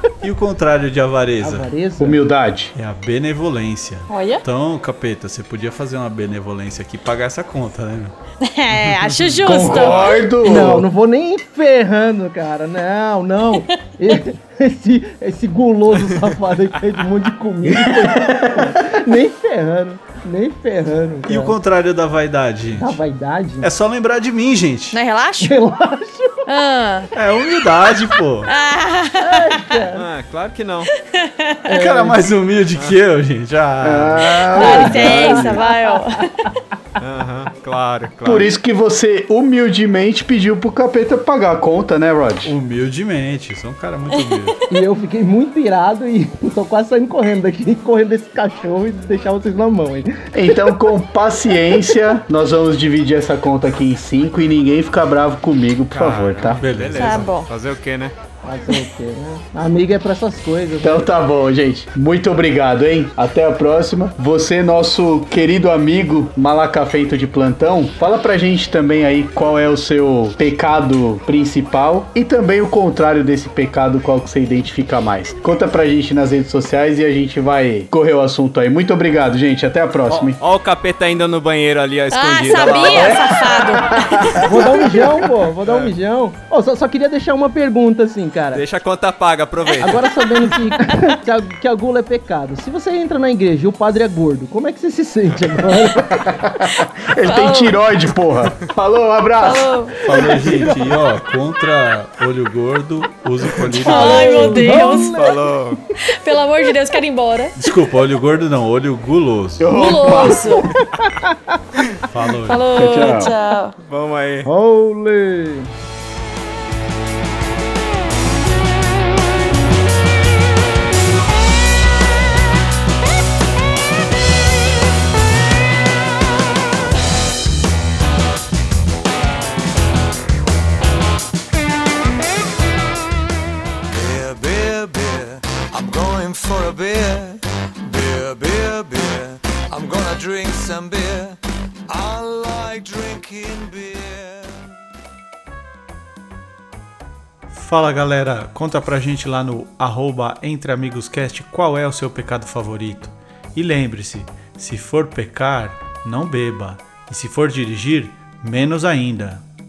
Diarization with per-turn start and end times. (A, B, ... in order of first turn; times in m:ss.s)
0:00.2-0:01.6 A
0:01.4-0:02.2 B
0:02.0-0:02.7 C
0:02.7-0:08.1 A
0:04.1-0:04.4 D
0:08.4-0:10.2 D
0:09.4-0:10.9 C
0:09.8-0:10.1 E
0:10.4-0:21.6 B
0:15.9-0:16.2 E
0:17.6-0:18.9 C
0:21.2-0:23.0 A
0:22.8-0:23.7 B
0:23.6-0:25.0 A
0:24.9-0:25.5 D
0:25.4-0:26.4 B
0:26.5-0:27.1 D
0:27.1-0:28.5 A
0:28.5-0:29.8 D
0:29.2-0:30.0 B
0:29.9-0:30.9 E
0:30.9-0:31.7 D
0:31.7-0:32.3 B
0:31.7-0:35.0 A
0:33.8-0:35.6 C
0:34.5-0:36.5 D
0:34.6-0:36.5 B
0:37.0-0:38.5 E
0:38.2-0:42.5 C
0:42.4-0:44.6 A
0:44.1-0:44.6 D
0:44.7-0:50.7 B
0:50.3-0:56.6 C
0:51.6-0:51.9 B
0:55.9-0:58.1 E
0:56.4-0:57.3 A
0:56.9-0:57.5 D
0:58.4-1:01.1 B
1:00.8-1:20.4 C
1:20.1-1:23.3 E
1:22.1-1:24.3 D
1:22.9-1:25.2 C
1:24.4-1:28.6 B
1:25.6-1:25.9 E
1:28.5-1:30.2 E
1:29.8-1:36.3 B
1:36.0-1:39.8 C
1:36.8-1:37.8 D
1:39.4-1:40.1 D
1:40.0-1:44.7 A
1:40.1-1:40.7 B
1:43.5-1:44.2 E
1:43.8-1:45.3 D
1:43.9-1:45.4 B
1:45.2-1:45.8 E
1:46.0-1:47.5 D
1:47.6-1:49.8 A
1:49.6-1:50.7 C
1:49.7-1:50.7 D
1:52.0-1:52.6 A
1:52.4-1:53.8 D
1:52.7-1:53.3 C
1:53.8-1:54.5 E
1:54.4-1:55.7 B
2:13.9-2:21.4 F
2:21.9-2:24.7 F
2:27.5-2:39.4 A